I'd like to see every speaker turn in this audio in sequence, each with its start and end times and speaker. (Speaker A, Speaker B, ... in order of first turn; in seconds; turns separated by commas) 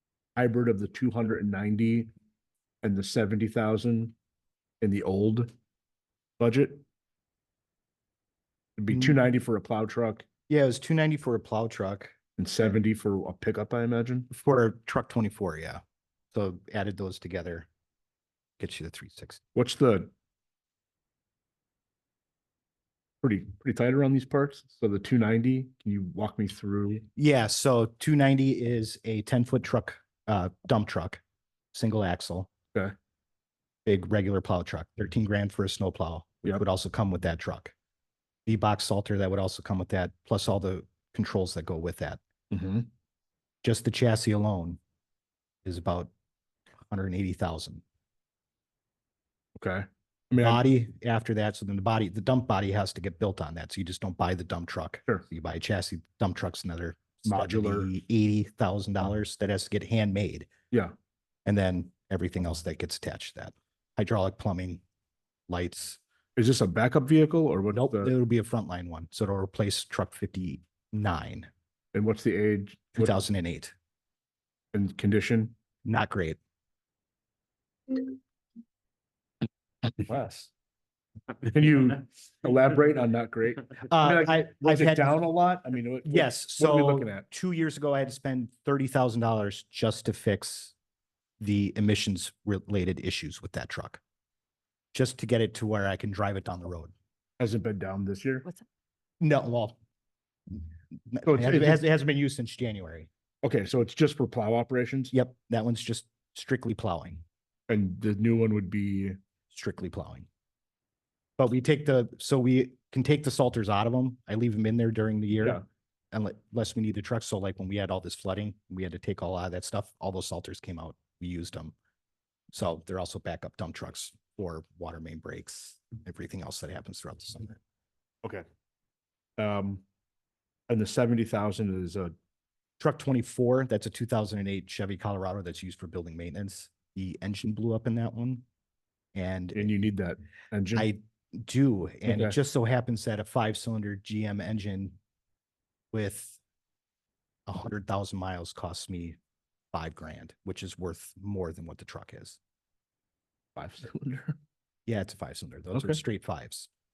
Speaker A: 0.3-2.1, Speaker A: 2.8-4.1, Speaker A: 4.8-5.5, Speaker A: 6.4-6.8, Speaker A: 8.8-10.2, Speaker B: 10.5-12.1, Speaker A: 12.4-14.3, Speaker B: 14.3-15.8, Speaker B: 16.3-17.7, Speaker B: 18.6-19.4, Speaker A: 19.5-20.1, Speaker A: 23.2-27.1, Speaker B: 27.1-31.2, Speaker B: 31.7-32.5, Speaker B: 33.9-37.7, Speaker B: 38.5-42.2, Speaker A: 42.5-42.9, Speaker B: 43.6-44.8, Speaker B: 45.6-46.1, Speaker B: 46.9-47.8, Speaker A: 49.6-50.6, Speaker B: 50.4-60.5, Speaker A: 57.2-57.9, Speaker B: 61.5-64.8, Speaker B: 65.5-66.0, Speaker A: 66.3-68.1, Speaker B: 67.7-71.5, Speaker A: 71.9-73.1, Speaker B: 73.0-73.7, Speaker A: 74.7-75.5, Speaker B: 75.8-76.4, Speaker A: 80.0-80.5, Speaker A: 81.4-87.2, Speaker B: 83.9-85.2, Speaker B: 86.0-90.7, Speaker B: 91.4-94.0, Speaker B: 94.9-96.9, Speaker A: 97.4-98.5, Speaker B: 99.2-99.8, Speaker B: 101.1-103.1, Speaker A: 101.2-101.8, Speaker A: 103.4-105.1, Speaker B: 105.1-107.2, Speaker A: 107.7-109.2, Speaker B: 109.5-110.3, Speaker B: 111.4-121.7, Speaker B: 122.5-127.6, Speaker A: 129.4-129.8, Speaker A: 130.7-132.1, Speaker B: 132.8-138.4, Speaker B: 139.1-139.7, Speaker A: 139.6-140.9, Speaker B: 140.7-144.9, Speaker A: 142.1-142.3, Speaker B: 145.9-146.4, Speaker B: 147.5-149.2, Speaker B: 149.7-152.4, Speaker A: 153.6-154.4, Speaker B: 154.9-156.7, Speaker A: 155.7-156.0